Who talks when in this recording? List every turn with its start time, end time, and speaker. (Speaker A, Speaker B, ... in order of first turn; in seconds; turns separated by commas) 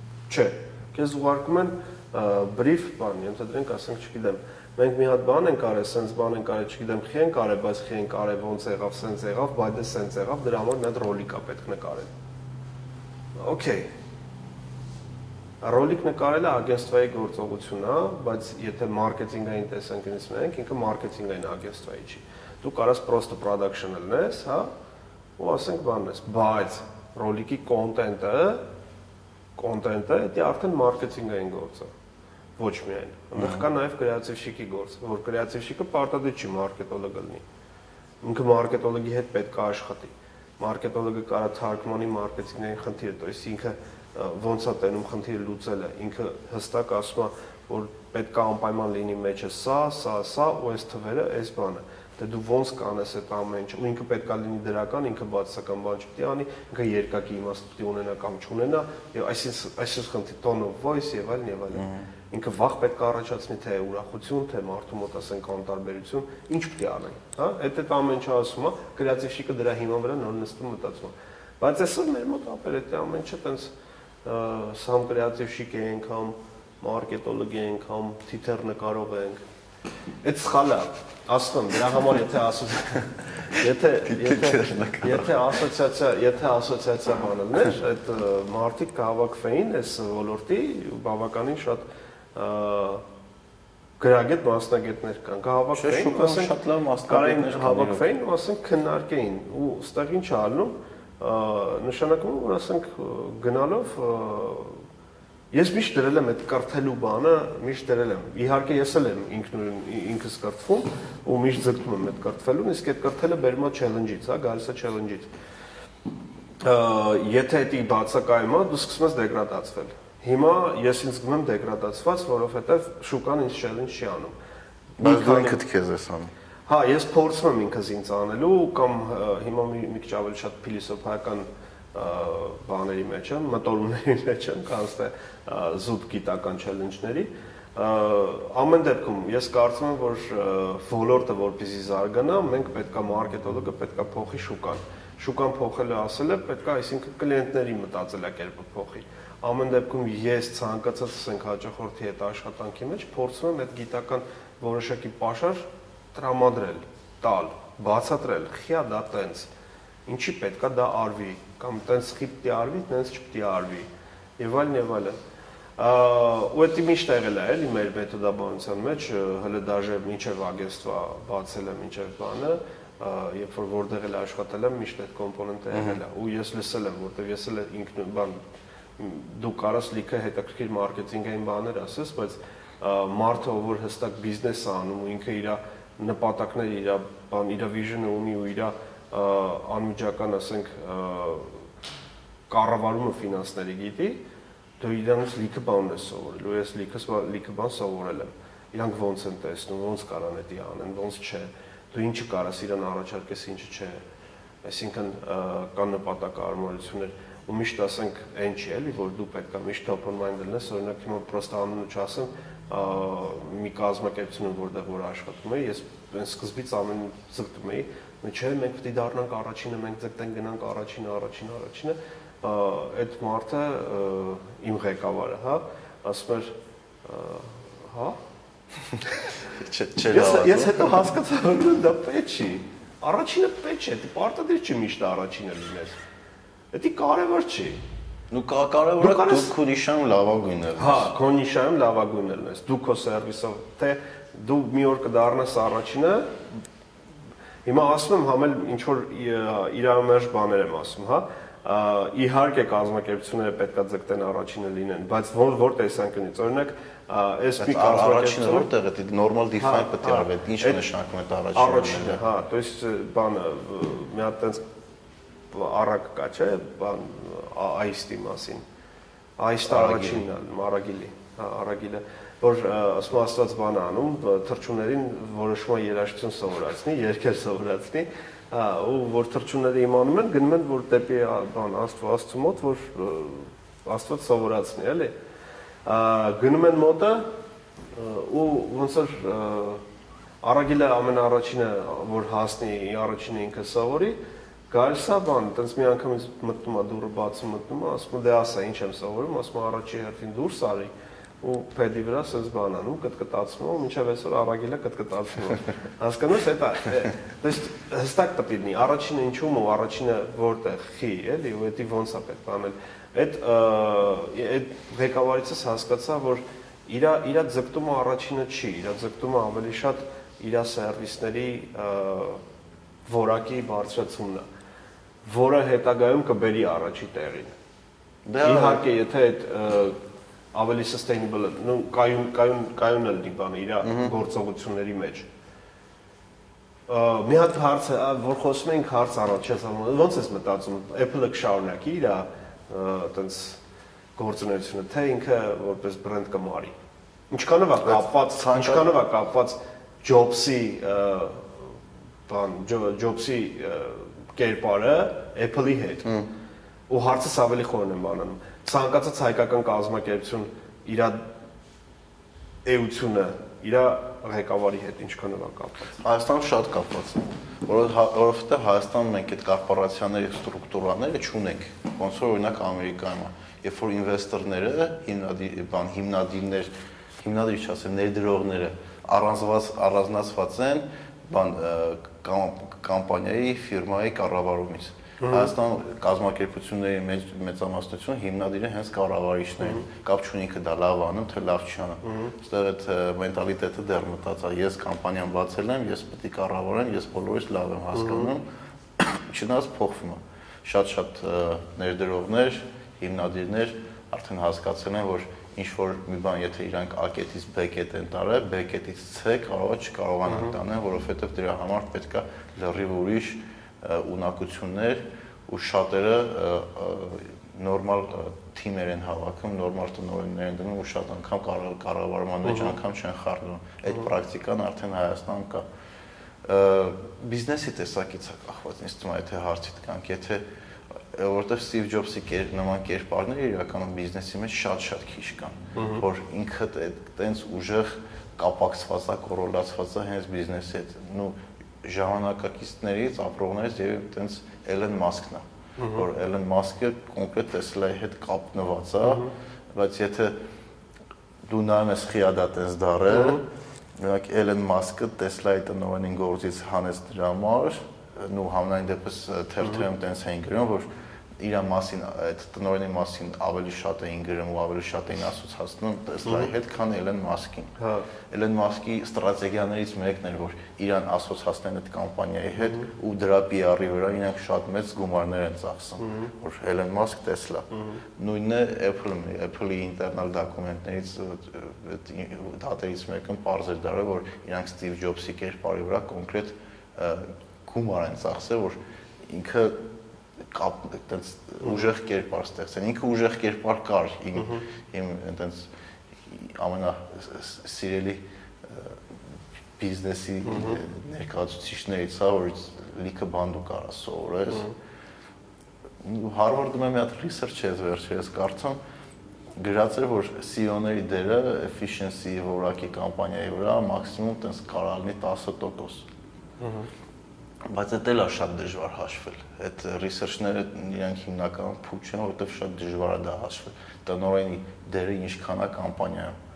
Speaker A: 0.3-12.1, Speaker A: 13.4-13.9, Speaker A: 15.6-24.7, Speaker A: 25.4-28.6, Speaker A: 29.6-31.9, Speaker A: 32.6-37.4, Speaker B: 33.4-33.7, Speaker A: 38.2-73.7, Speaker B: 61.7-62.1, Speaker A: 74.2-79.4, Speaker A: 80.2-91.8, Speaker B: 84.0-85.6, Speaker A: 92.3-93.0, Speaker A: 94.0-96.5, Speaker B: 95.8-98.1, Speaker A: 97.1-104.8, Speaker A: 105.5-115.3, Speaker A: 116.6-124.3, Speaker A: 125.0-125.6, Speaker B: 125.0-126.3, Speaker A: 126.7-159.5, Speaker A: 160.1-165.2, Speaker A: 165.8-178.4, Speaker A: 179.0-191.6, Speaker A: 192.5-194.2, Speaker A: 194.8-204.0, Speaker A: 204.6-228.2, Speaker B: 229.5-230.9, Speaker A: 230.1-236.0, Speaker A: 236.7-237.8, Speaker B: 238.3-241.1, Speaker A: 239.0-239.5, Speaker A: 240.8-246.4, Speaker A: 247.7-258.7, Speaker B: 257.6-262.2, Speaker A: 259.6-260.8, Speaker A: 261.5-264.6, Speaker A: 265.5-268.6, Speaker A: 269.4-285.1, Speaker B: 269.7-270.2, Speaker A: 285.9-287.3, Speaker A: 287.9-289.8, Speaker A: 290.4-294.2, Speaker A: 294.7-322.4, Speaker A: 323.1-324.5, Speaker A: 325.2-327.6, Speaker B: 328.2-328.8, Speaker A: 328.4-330.0, Speaker A: 330.5-335.3, Speaker B: 333.8-334.1, Speaker A: 336.9-343.6, Speaker A: 344.2-346.7, Speaker A: 347.3-351.8, Speaker B: 347.9-348.9, Speaker A: 352.3-356.1, Speaker B: 356.0-356.3, Speaker A: 356.9-361.2, Speaker A: 362.6-366.0, Speaker B: 366.0-398.5, Speaker A: 385.2-385.5, Speaker A: 392.0-392.3, Speaker A: 397.9-398.3, Speaker B: 399.0-425.6, Speaker A: 410.3-410.6, Speaker A: 422.4-422.8, Speaker B: 426.4-430.4, Speaker B: 431.1-450.4, Speaker A: 435.8-436.1, Speaker A: 445.8-446.1, Speaker A: 449.0-449.3, Speaker B: 451.5-453.4, Speaker A: 453.1-453.4, Speaker B: 454.0-460.9, Speaker B: 461.4-467.7, Speaker A: 466.3-466.5, Speaker A: 467.8-468.1, Speaker B: 468.3-489.8, Speaker A: 472.6-472.9, Speaker A: 476.0-476.3, Speaker A: 477.7-478.0, Speaker B: 490.4-495.7, Speaker A: 494.4-494.6, Speaker B: 496.2-499.0, Speaker B: 499.8-504.7, Speaker A: 500.5-500.8, Speaker A: 504.5-504.8, Speaker B: 506.0-508.8, Speaker B: 509.6-516.1, Speaker A: 516.6-516.9, Speaker B: 517.7-526.4